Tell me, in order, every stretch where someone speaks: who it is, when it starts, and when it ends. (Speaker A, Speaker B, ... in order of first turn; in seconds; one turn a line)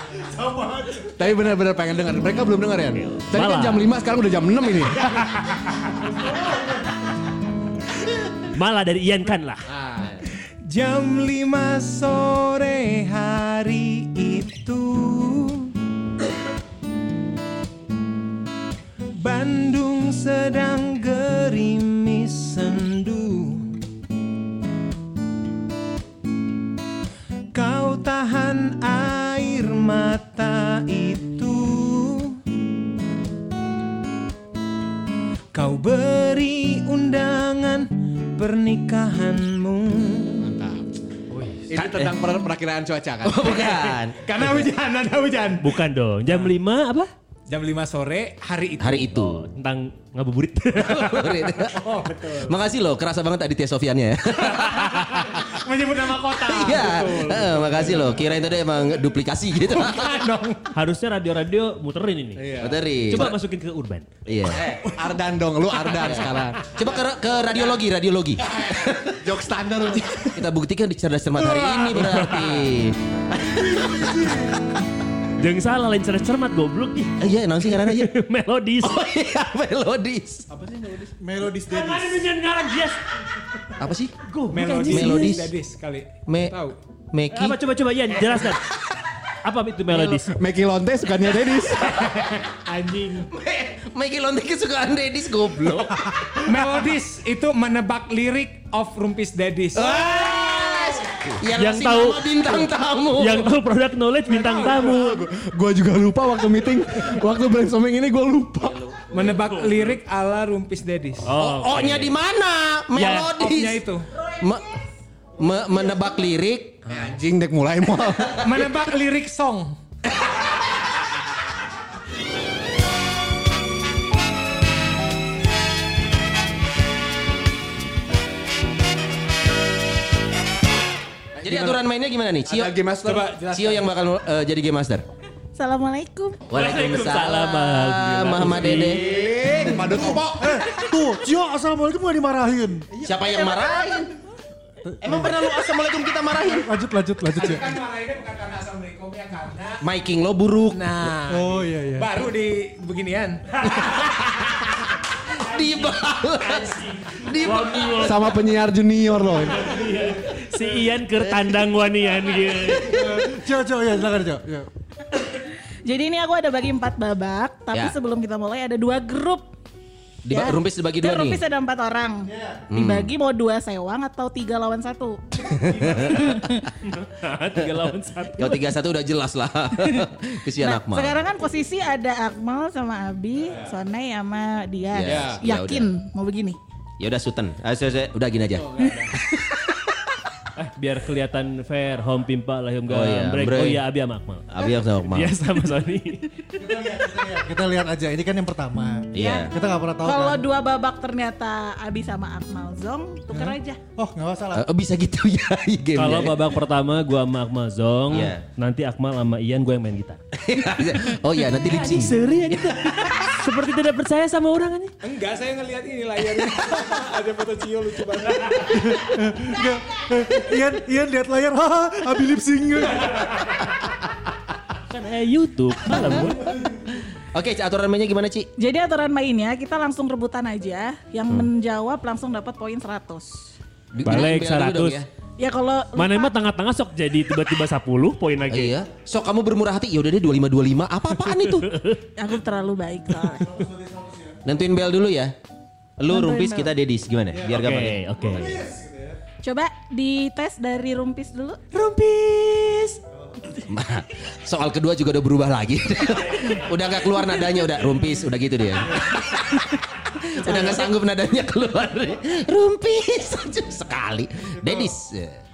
Speaker A: 0.2-1.1
Speaker B: 1.1-5.3
Speaker C: 3.1-3.8
Speaker C: 5.4-5.7
Speaker A: 6.0-6.9
Speaker C: 8.4-9.6
Speaker B: 9.7-10.1
Speaker D: 10.6-15.7
Speaker D: 19.1-23.7
Speaker D: 27.5-32.4
Speaker D: 35.5-40.5
Speaker B: 40.4-40.9
Speaker B: 41.7-43.7
Speaker E: 41.7-42.1
Speaker E: 43.2-44.2
Speaker D: 44.1-45.8
Speaker C: 45.6-47.1
Speaker D: 47.5-49.2
Speaker E: 48.8-49.4
Speaker C: 49.2-51.6
Speaker E: 50.8-55.4
Speaker D: 51.8-52.5
Speaker D: 55.3-57.9
Speaker E: 56.4-60.2
Speaker D: 59.7-60.7
Speaker C: 60.7-62.5
Speaker B: 62.4-63.2
Speaker E: 62.6-63.4
Speaker C: 63.1-64.1
Speaker E: 64.2-64.9
Speaker B: 64.5-66.9
Speaker E: 65.8-69.3
Speaker B: 69.2-70.4
Speaker E: 70.0-74.3
Speaker C: 71.9-72.7
Speaker A: 73.6-74.5
Speaker C: 75.4-79.0
Speaker E: 77.2-78.1
Speaker E: 78.8-80.5
Speaker A: 80.5-82.3
Speaker C: 81.4-83.0
Speaker E: 83.8-84.1
Speaker C: 84.2-85.4
Speaker D: 84.5-86.8
Speaker E: 84.9-85.5
Speaker E: 86.3-86.6
Speaker E: 87.1-87.6
Speaker C: 87.3-88.6
Speaker C: 89.4-90.4
Speaker B: 90.0-92.0
Speaker D: 91.8-93.3
Speaker E: 93.3-96.3
Speaker D: 96.4-100.2
Speaker E: 99.7-103.5
Speaker C: 101.5-105.2
Speaker D: 104.3-104.9
Speaker B: 104.9-108.8
Speaker E: 108.6-109.2
Speaker D: 109.1-111.3
Speaker C: 109.2-110.0
Speaker C: 111.2-112.2
Speaker E: 111.4-113.9
Speaker C: 112.9-113.3
Speaker D: 113.2-114.1
Speaker F: 114.1-114.8
Speaker E: 115.4-117.0
Speaker F: 115.9-116.3
Speaker B: 116.8-118.6
Speaker D: 118.4-119.8
Speaker B: 131.4-131.8
Speaker E: 131.4-132.7
Speaker B: 132.4-133.4
Speaker D: 133.0-133.9
Speaker E: 133.5-135.0
Speaker F: 135.6-136.4
Speaker E: 136.5-140.1
Speaker C: 136.5-139.0
Speaker B: 138.8-140.7
Speaker A: 139.8-142.9
Speaker E: 143.0-144.1
Speaker F: 143.3-143.8
Speaker E: 145.0-146.7
Speaker A: 146.5-147.8
Speaker D: 147.3-149.8
Speaker E: 149.8-151.1
Speaker D: 150.7-153.4
Speaker A: 151.3-152.1
Speaker E: 153.7-154.5
Speaker C: 153.7-154.0
Speaker E: 155.3-158.3
Speaker C: 156.4-158.4
Speaker B: 158.0-159.8
Speaker C: 159.5-163.3
Speaker E: 161.2-161.6
Speaker A: 162.8-164.7
Speaker F: 165.8-169.4
Speaker E: 170.2-171.4
Speaker F: 170.3-176.4
Speaker A: 172.3-172.6
Speaker E: 172.7-173.1
Speaker E: 175.4-176.7
Speaker C: 176.8-178.7
Speaker E: 178.4-181.2
Speaker F: 180.6-186.6
Speaker E: 184.9-185.9
Speaker B: 185.0-185.4
Speaker E: 187.0-189.4
Speaker C: 190.6-194.5
Speaker E: 192.9-193.8
Speaker E: 194.5-195.3
Speaker C: 195.1-196.5
Speaker A: 196.6-200.4
Speaker E: 199.1-199.5
Speaker F: 199.2-199.5
Speaker F: 200.0-203.8
Speaker A: 203.3-204.6
Speaker E: 204.5-206.3
Speaker C: 205.9-210.2
Speaker E: 208.1-208.4
Speaker E: 210.3-213.4
Speaker C: 211.6-214.9
Speaker D: 215.0-218.8
Speaker A: 218.7-223.3
Speaker C: 224.9-226.5
Speaker E: 227.3-228.5
Speaker F: 228.6-233.5
Speaker E: 233.9-235.1
Speaker C: 234.0-235.0
Speaker F: 235.4-236.3
Speaker C: 235.9-238.7
Speaker E: 238.5-241.8
Speaker C: 241.7-242.0
Speaker F: 242.2-243.6
Speaker A: 243.3-244.4
Speaker E: 244.4-245.3
Speaker E: 246.0-248.0
Speaker F: 246.1-246.7
Speaker A: 247.3-247.6
Speaker C: 247.4-248.6
Speaker A: 248.1-249.2
Speaker F: 249.4-251.6
Speaker C: 251.7-253.0
Speaker A: 253.1-253.4
Speaker E: 253.7-265.4
Speaker F: 260.4-260.9
Speaker A: 264.6-264.9